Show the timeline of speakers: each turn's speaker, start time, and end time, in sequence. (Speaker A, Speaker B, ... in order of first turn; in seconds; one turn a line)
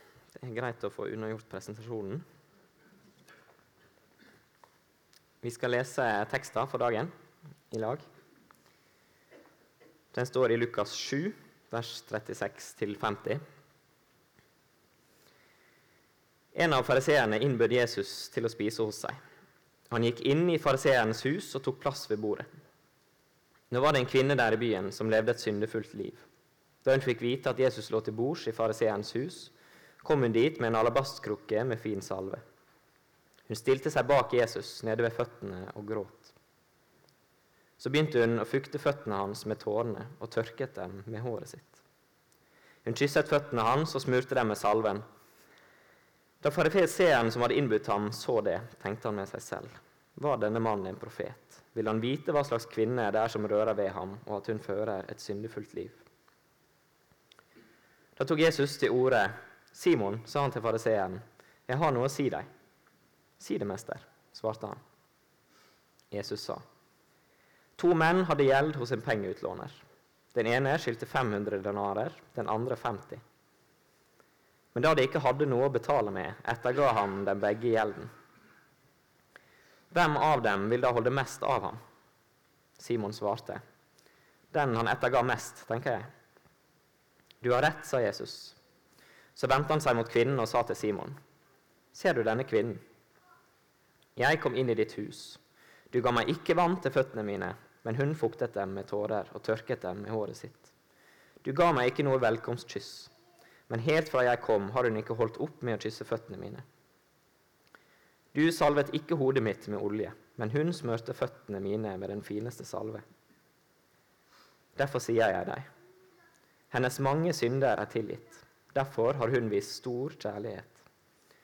Speaker A: 0.3-2.2
Speaker A: 5.4-7.1
Speaker A: 7.7-8.0
Speaker A: 10.1-13.4
Speaker A: 16.5-19.2
Speaker A: 19.9-22.5
Speaker A: 23.7-26.2
Speaker A: 26.8-32.4
Speaker A: 33.5-36.3
Speaker A: 37.8-41.8
Speaker A: 42.8-45.0
Speaker A: 46.4-56.0
Speaker A: 58.2-62.5
Speaker A: 63.4-64.8
Speaker A: 66.1-66.6
Speaker A: 67.8-69.8
Speaker A: 70.3-73.2
Speaker A: 74.7-78.1
Speaker A: 79.9-81.8
Speaker A: 82.8-83.6
Speaker A: 84.5-86.1
Speaker A: 87.4-88.5
Speaker A: 89.3-91.2
Speaker A: 91.9-92.8
Speaker A: 94.2-95.4
Speaker A: 95.9-100.7
Speaker A: 101.4-103.1
Speaker A: 103.7-106.6
Speaker A: 108.3-113.0
Speaker A: 114.8-115.7
Speaker A: 116.7-120.8